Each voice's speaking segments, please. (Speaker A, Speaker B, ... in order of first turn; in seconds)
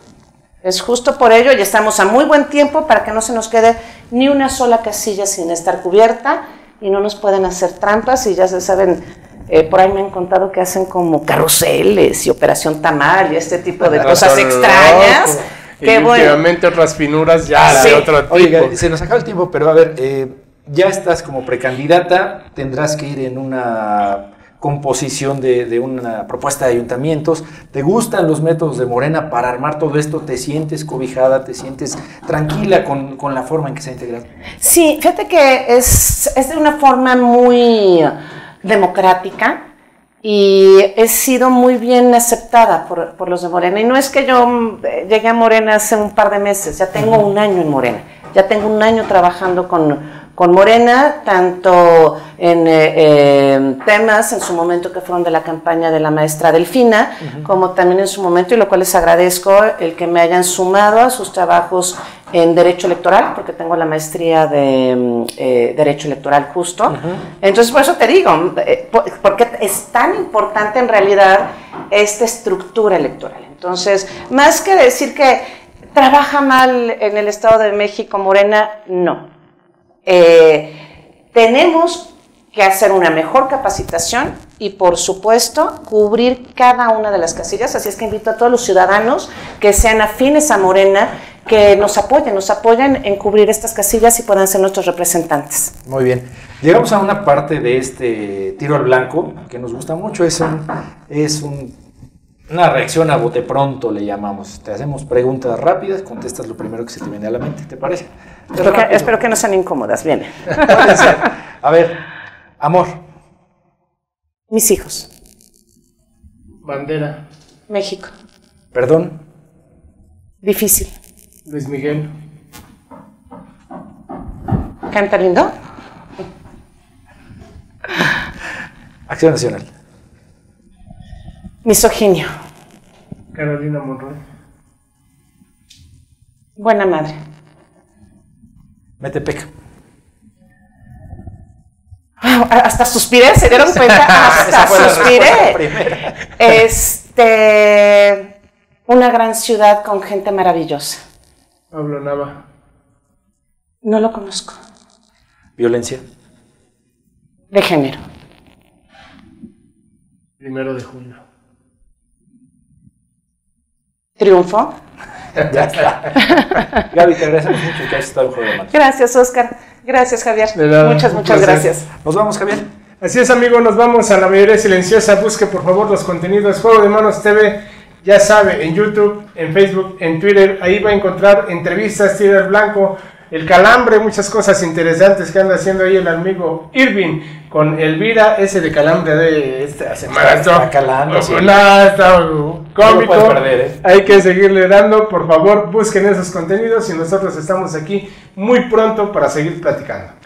Speaker A: 0.6-16.4, 17.6-18.1, 34.6-39.6, 40.2-75.4, 75.9-79.3, 80.1-80.8, 81.3-95.7, 108.5-111.0, 114.5-115.1, 117.7-118.1, 120.4-120.9, 124.9-125.5, 131.6-132.3, 136.6-137.2, 142.2-145.6, 146.4-148.3, 148.9-151.0, 153.8-154.6, 157.5-158.0, 164.2-164.7, 166.2-166.8, 168.7-171.9
Speaker B: 13.9-18.8, 116.6-117.2, 121.5-122.1, 133.3-134.2, 144.1-144.7, 151.7-152.4, 160.4-161.2, 170.6-171.7, 173.0-200.1
Speaker C: 14.0-14.4, 17.6-34.2, 66.9-67.2, 95.9-101.8, 102.5-109.2, 110.6-112.0, 112.6-113.0, 118.7-119.2, 129.1-129.7, 139.0-139.5, 144.1-146.1, 155.6-156.0, 165.5-166.4, 166.9-168.8, 172.0-172.7, 190.1-191.5, 192.8-193.8